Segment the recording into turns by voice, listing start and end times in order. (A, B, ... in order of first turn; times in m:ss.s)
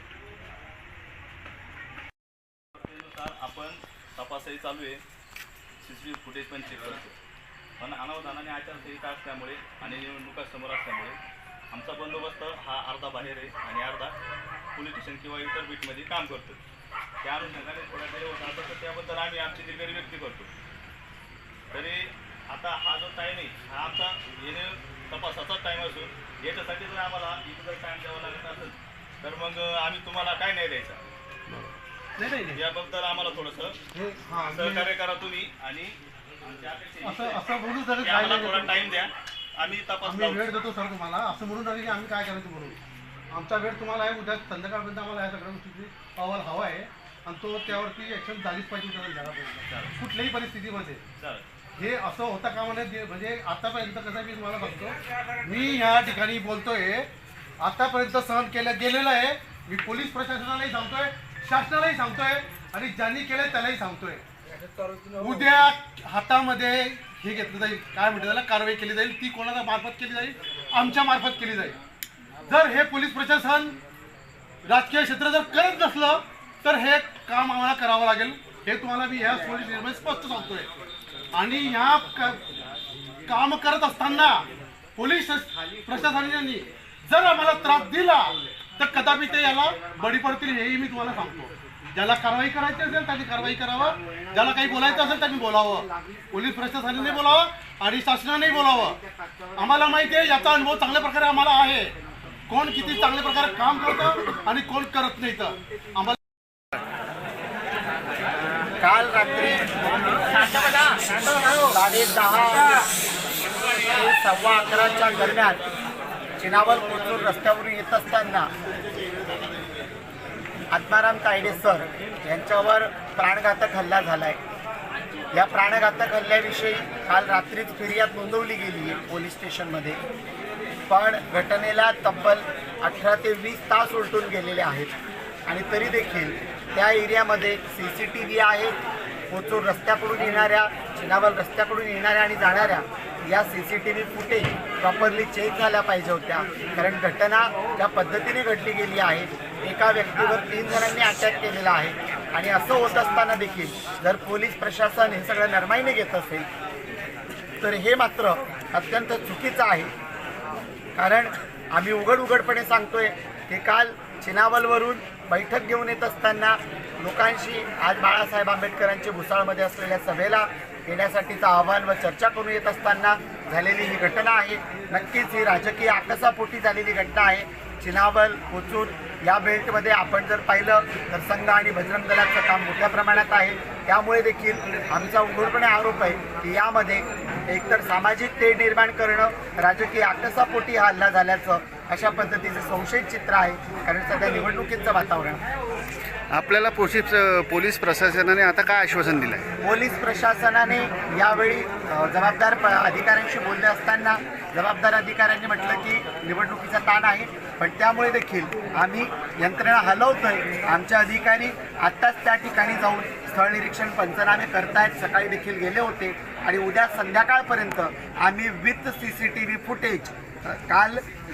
0:02.7-0:05.0 A
0:05.8-0:07.2 A
0:07.8-0:11.2 A
0:11.7-0:14.2 A
0:14.8-0:16.6 A
0:17.2-0:20.5 A
0:21.7-0:31.0 A
0:32.2-0:32.6 B
0:32.5-0:33.8 A
0:33.9-0:34.9 B
0:34.5-0:37.4 A
0:37.0-0:38.8 B
0:38.0-0:40.6 A
0:40.0-0:42.8 B
0:43.3-0:51.0 B
0:49.7-0:49.9 A
0:51.2-0:51.5 A
0:51.8-1:04.2 B
1:05.2-1:11.8 B
1:12.5-1:13.8 B
1:14.6-1:20.7 B
1:21.3-1:22.5 B
1:23.3-1:39.0 B
1:39.6-1:42.0 B
1:42.5-1:46.2 B
1:48.8-1:52.9 C
1:53.8-1:55.6 C
1:56.4-1:58.5 C
2:00.7-2:04.4 C
2:05.3-2:10.0 C
2:10.9-2:14.9 C
2:15.5-2:18.8 C
2:19.3-2:36.5 C
2:37.6-2:39.9 C
2:41.0-3:15.4 C
3:16.3-3:19.4 D
3:19.6-3:41.0 C